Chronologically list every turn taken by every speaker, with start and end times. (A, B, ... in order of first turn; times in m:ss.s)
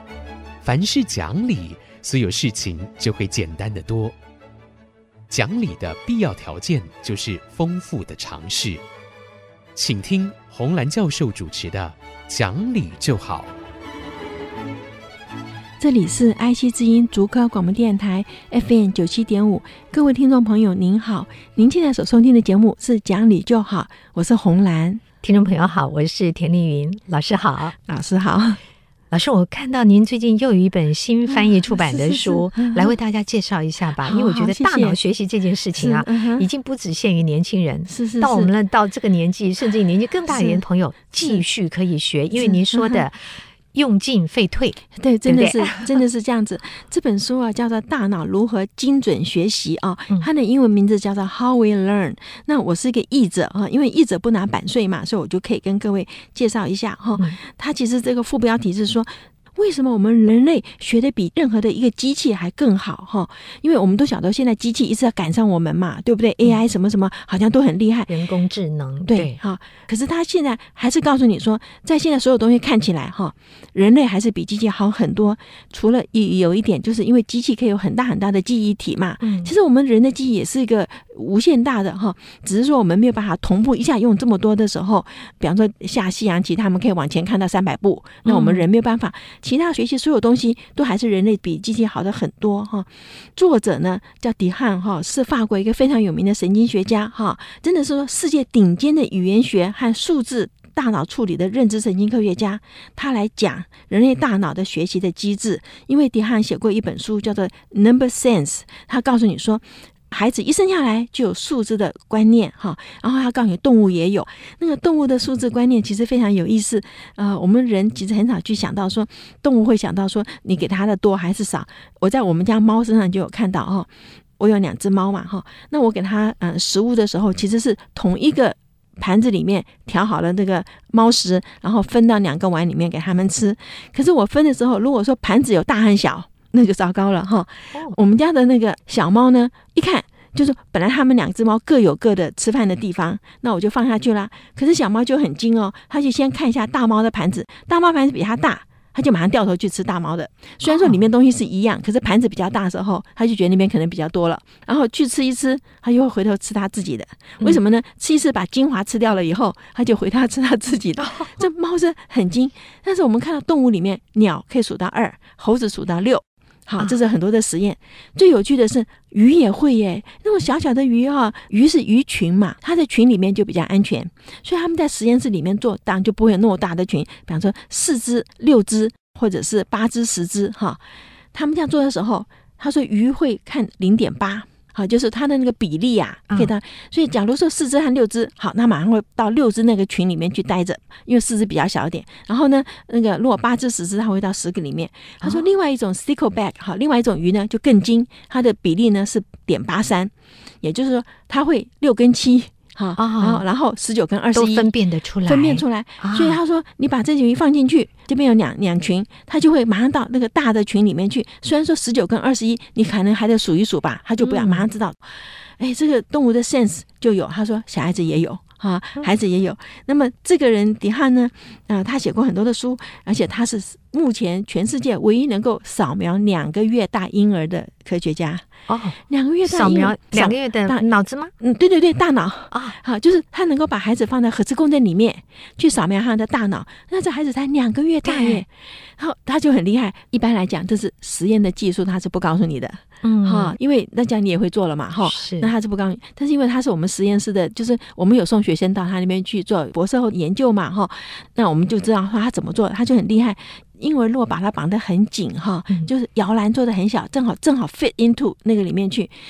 0:00.6-0:04.1 A
0:05.3-0:08.8 A
0:09.8-0:13.5 A
0:15.8-0:25.0 B
0:25.2-0:27.7 C
0:27.8-0:28.6 B
0:29.1-0:46.0 C
0:31.3-0:32.9 B
0:34.0-0:35.0 B
0:35.7-0:36.5 B
0:37.9-0:38.5 B
0:40.3-0:40.6 B
0:42.4-0:43.0 B
0:45.0-1:08.1 B
1:08.1-1:09.4 C
1:09.0-3:00.8 B
1:19.2-1:19.5 C
1:28.2-1:28.6 C
2:30.6-2:31.0 C
2:41.0-2:41.4 C
3:01.3-3:24.7 B
3:23.0-3:23.4 C
3:24.3-3:26.4 C
3:25.2-3:48.5 B
3:34.2-3:34.7 C
3:48.7-3:51.3 C
3:49.0-3:50.8 B
3:51.4-4:19.1 B
3:58.0-3:58.4 C
4:03.0-4:03.6 C
4:05.0-4:05.5 C